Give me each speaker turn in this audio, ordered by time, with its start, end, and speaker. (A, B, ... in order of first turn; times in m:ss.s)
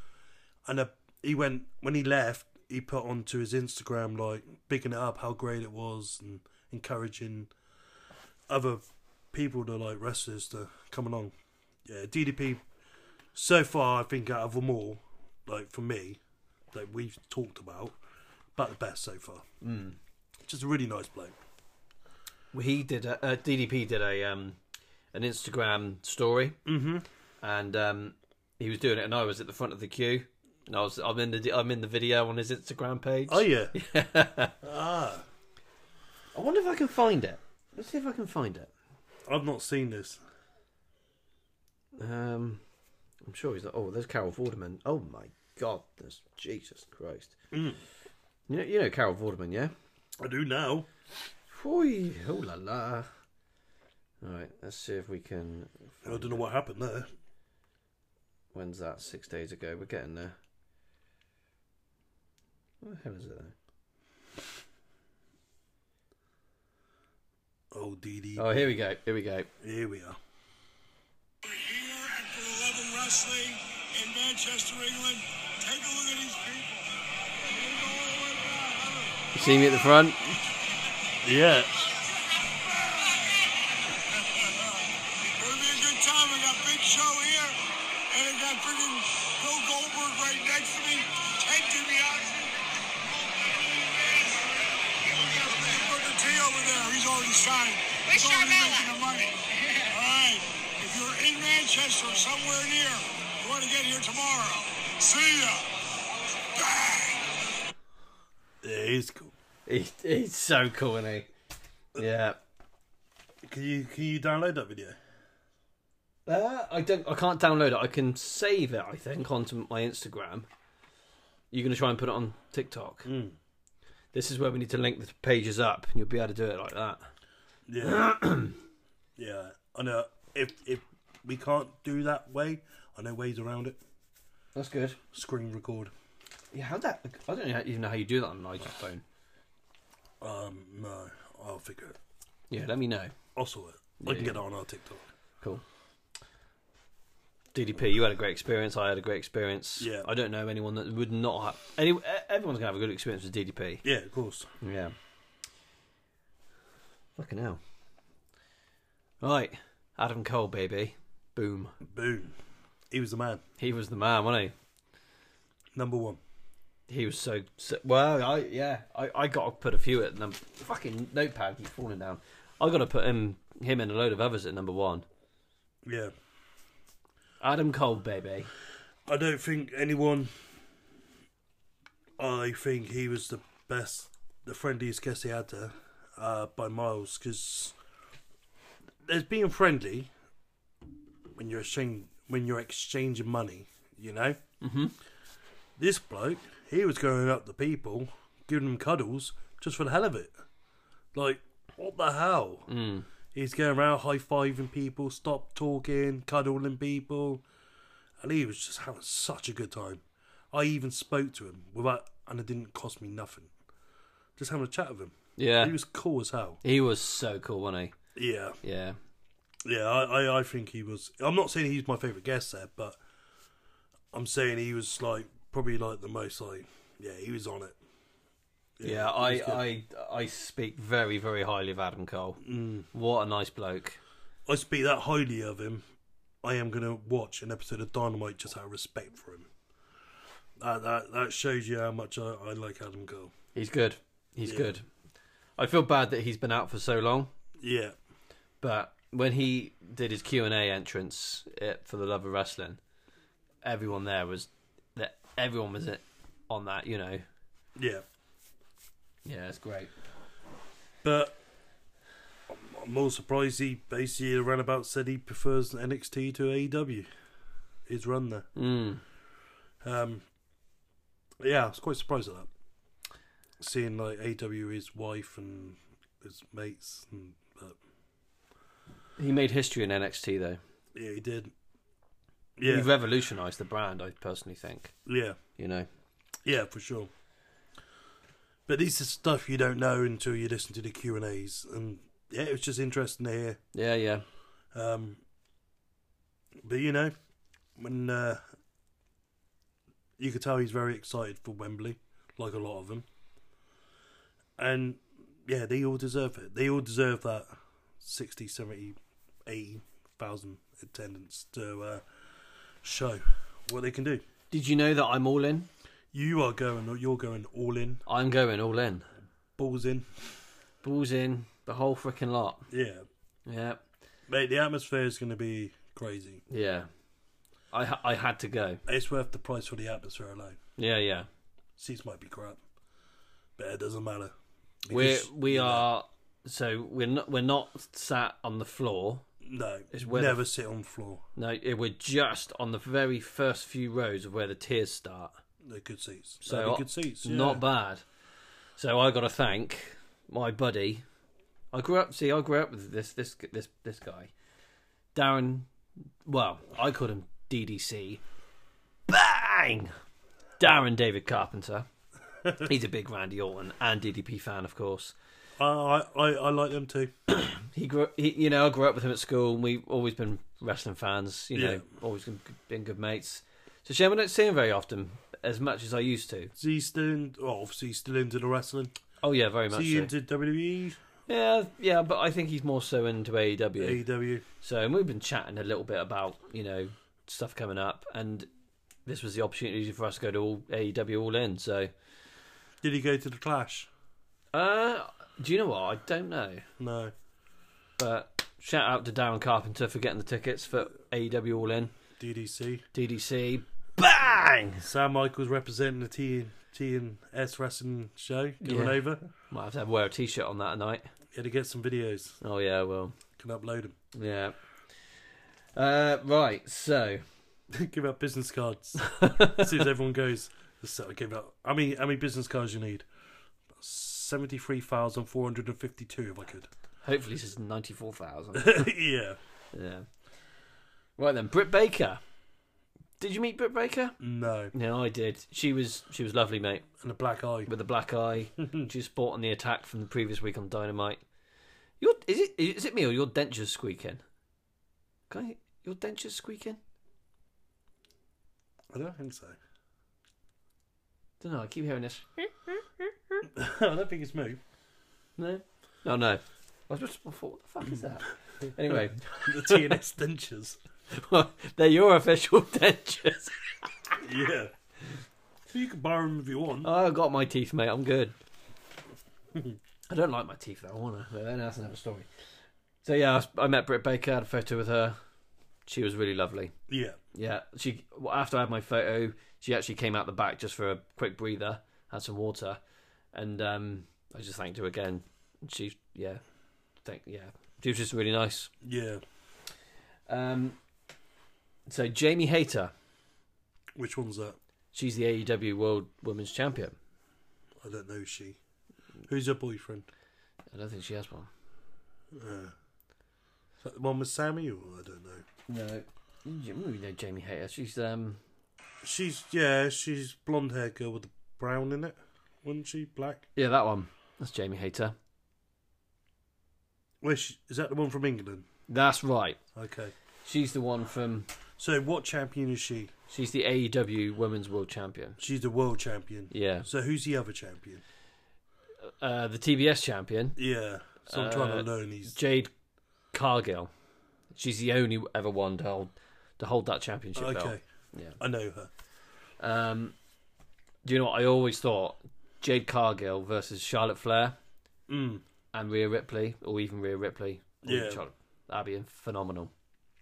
0:00.6-0:07.5 A
0:08.5-0:11.3 A
0:11.8-0:12.6 A
0:13.3-0:16.2 A
0:16.7-0:18.0 A
0:18.5-0:19.4 A
0:19.6-0:20.0 B
0:20.4-0:21.4 A
0:22.5-0:24.6 B
0:25.1-0:26.6 B
0:26.6-0:27.0 A
0:27.4-0:34.5 B
0:33.3-0:33.7 A
0:34.6-0:35.2 A
0:36.3-0:38.7 B
0:39.3-0:40.2 A
0:42.0-0:42.6 B
0:43.2-0:47.4 B
0:47.5-0:47.8 A
0:48.5-0:49.7 B
0:50.2-0:50.9 A
0:51.5-0:53.1 B
0:54.2-0:56.4 B
0:56.0-0:57.1 A
0:58.5-1:00.4 B
1:02.8-1:03.5 B
1:07.7-1:08.7 A
1:08.4-1:09.5 B
1:09.6-1:10.2 A
1:11.4-1:19.7 C
1:19.3-1:20.4 B
1:21.2-1:21.7 A
1:22.3-1:23.5 C
1:24.1-1:45.7 C
1:46.3-1:47.5 C
1:48.6-1:49.3 A
1:49.6-1:51.3 B
1:52.0-1:52.4 B
1:53.4-1:55.0 A
1:56.2-2:00.5 B
2:01.5-2:03.1 B
2:03.0-2:03.4 A
2:04.1-2:07.1 B
2:07.7-2:08.2 A
2:07.8-2:08.6 B
2:09.2-2:13.8 A
2:14.5-2:15.0 B
2:15.1-2:15.9 A
2:16.5-2:19.0 B
2:20.2-2:22.0 A
2:22.5-2:23.1 B
2:23.4-2:25.0 A
2:24.0-2:24.4 B
2:27.5-2:33.8 B
2:29.8-2:30.1 A
2:33.8-2:34.5 A
2:34.6-2:34.9 B
2:37.2-2:37.6 B
2:39.2-2:41.7 B
2:41.8-2:42.3 A
2:42.9-2:43.4 A
2:43.6-2:44.5 B
2:45.7-2:46.2 A
2:46.9-2:55.0 B
2:55.8-2:56.1 A
2:57.4-2:58.5 B
2:59.1-3:00.4 A
3:02.2-3:07.8 A
3:09.0-3:10.1 A
3:11.4-3:14.4 A
3:14.6-3:14.9 B
3:15.8-3:20.3 A
3:21.1-3:22.7 A
3:22.7-3:23.1 B
3:23.3-3:27.4 A
3:28.2-3:33.5 A
3:34.4-3:36.6 A
3:35.4-3:35.8 B
3:36.6-3:38.0 B
3:38.1-3:38.6 A
3:38.6-3:39.0 B
3:39.6-3:43.0 A
3:44.1-3:47.8 A
3:48.8-3:49.6 A
3:48.8-3:54.0 B
3:52.4-3:52.8 A
3:54.4-3:55.8 A
3:56.4-3:59.5 A
4:00.6-4:03.3 A
4:03.5-4:04.8 B
4:04.4-4:04.8 A
4:05.6-4:07.3 B
4:07.6-4:07.9 A
4:08.6-4:12.8 B
4:13.6-4:17.2 B
4:17.8-4:18.0 A
4:19.2-4:19.9 B
4:21.0-4:21.4 A
4:22.5-4:27.1 A
4:27.9-4:28.5 A
4:28.5-4:29.0 B
4:29.8-4:30.2 A
4:31.4-4:32.5 A
4:33.6-4:37.8 A
4:39.2-4:40.6 B
4:40.9-4:41.5 A
4:42.6-4:42.9 A
4:42.6-4:44.9 B
4:45.0-4:45.4 A
4:45.6-4:45.9 B
4:46.4-4:47.1 A
4:48.7-4:53.6 A
4:53.7-4:54.2 B
4:54.7-4:55.2 A
4:56.6-4:57.1 A
4:57.8-4:58.4 A
5:00.2-5:03.0 A
5:04.6-5:12.0 A
5:12.8-5:14.2 A
5:14.5-5:15.7 B
5:16.1-5:18.0 A
5:18.0-5:19.1 B
5:19.6-5:20.1 A
5:20.8-5:22.7 B
5:22.7-5:23.0 A
5:23.4-5:23.8 B
5:24.3-5:26.4 A
5:26.5-5:26.9 B
5:27.7-5:28.8 B
5:28.8-5:30.6 A
5:30.8-5:31.3 B
5:31.8-5:32.6 A
5:33.6-5:34.3 A
5:34.8-5:35.9 A
5:34.9-5:39.2 B
5:39.4-5:41.2 A
5:39.9-5:40.4 B
5:41.4-5:45.4 B
5:45.6-5:47.6 A
5:46.4-5:48.0 B
5:48.8-5:51.0 B
5:51.7-5:54.3 B
5:55.1-5:55.7 B
5:56.2-5:58.2 B
5:59.1-5:59.9 B
6:00.6-6:01.9 B
6:02.6-6:05.1 B
6:05.6-6:07.1 A
6:07.3-6:16.5 B
6:11.5-6:11.8 A
6:16.6-6:18.9 A
6:19.2-6:20.1 B
6:19.7-6:21.0 A
6:21.3-6:24.0 B
6:23.8-6:24.4 A
6:24.6-6:28.5 B
6:29.0-6:31.9 B
6:32.8-6:33.9 A
6:34.5-6:36.6 B
6:36.8-6:37.1 A
6:38.0-6:41.9 B
6:42.2-6:42.8 A
6:42.9-6:44.9 B
6:44.8-6:49.2 A
6:48.6-6:51.1 B
6:51.3-6:52.4 A
6:52.4-6:53.2 B
6:53.4-6:54.0 A
6:54.1-6:54.6 B
6:55.7-6:57.2 B
6:57.7-7:03.0 A
6:59.0-6:59.7 B
7:03.8-7:06.7 A
7:07.0-7:08.9 B
7:08.5-7:09.4 A
7:09.7-7:10.0 B
7:11.2-7:12.2 B
7:13.2-7:14.2 B
7:14.2-7:14.7 A
7:14.7-7:16.8 B
7:17.0-7:17.7 A
7:17.7-7:21.2 B
7:22.0-7:24.2 B
7:25.3-7:26.8 B
7:28.9-7:29.6 A
7:31.4-7:32.4 B
7:33.5-7:34.6 A
7:35.4-7:39.9 B
7:38.9-7:40.8 A
7:41.1-7:43.5 B
7:44.2-7:44.7 A
7:45.7-7:46.9 A
7:46.8-7:48.3 B
7:50.1-7:52.3 B
7:53.0-7:55.2 B
7:55.8-7:56.7 B
7:56.9-7:57.2 A
7:57.3-8:02.8 B
8:03.3-8:06.4 B
8:07.0-8:08.7 B
8:08.8-8:09.2 A
8:10.3-8:10.8 B
8:11.9-8:12.9 B
8:14.0-8:14.6 A
8:14.9-8:17.0 B
8:17.8-8:18.6 A
8:19.3-8:20.1 A
8:20.7-8:21.5 B
8:22.3-8:22.7 A
8:23.8-8:25.4 A
8:25.7-8:28.4 B
8:29.0-8:33.4 A
8:33.6-8:35.1 B
8:37.2-8:38.6 A
8:38.9-8:39.6 B
8:39.7-8:40.1 A
8:40.4-8:41.5 B
8:41.8-8:43.1 A
8:43.3-8:45.4 B
8:45.4-8:48.0 A
8:46.5-8:46.9 B
8:49.0-8:50.6 B
8:50.6-8:52.4 A
8:51.3-8:52.7 B
8:53.3-8:53.9 B
8:54.5-8:58.4 B
8:57.4-8:57.8 A
8:58.4-8:58.9 A
8:59.6-9:00.1 B
9:01.0-9:04.6 B
9:05.1-9:05.4 A
9:05.7-9:09.7 B
9:07.8-9:08.2 A